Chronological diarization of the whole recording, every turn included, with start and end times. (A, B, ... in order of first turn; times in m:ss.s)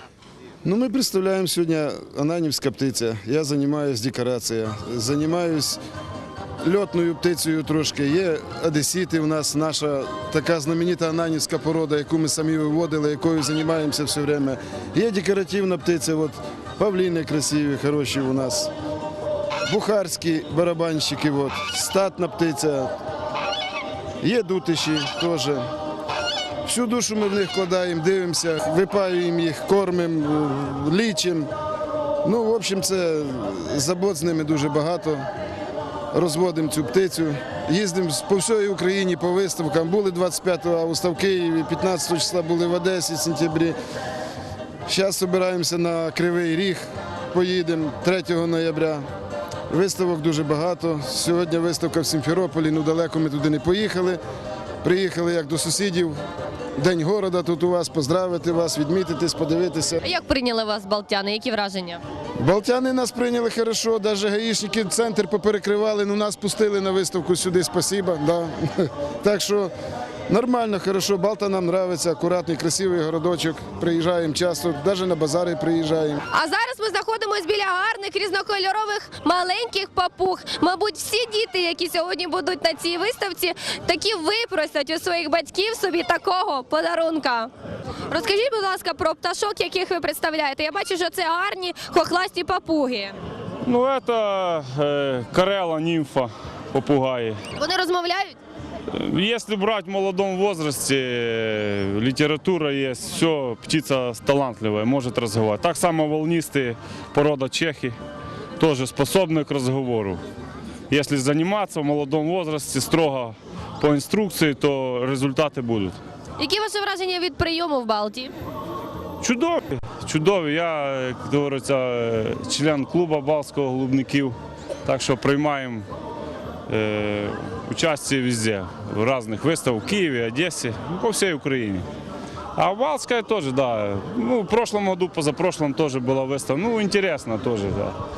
0:00.6-0:05.8 A
0:06.6-0:18.7 A
0:19.7-0:22.9 A
0:24.2-0:25.6 A
0:26.7-0:31.5 A
0:32.2-0:35.2 A
0:36.1-0:43.8 A
0:44.9-0:49.0 A
0:49.7-0:54.2 A
0:54.8-0:56.2 A
0:56.8-1:00.0 A
1:00.0-1:02.0 B
1:02.4-1:09.7 A
1:10.3-1:16.2 A
1:16.3-1:27.5 B
1:28.1-1:33.2 B
1:33.6-1:37.4 C
1:37.6-1:38.4 B
1:38.9-1:48.0 C
1:48.6-1:50.2 C
1:50.9-1:56.0 C
1:56.4-1:58.3 B
1:59.2-2:05.9 C
2:06.7-2:11.9 C
2:12.6-2:18.0 C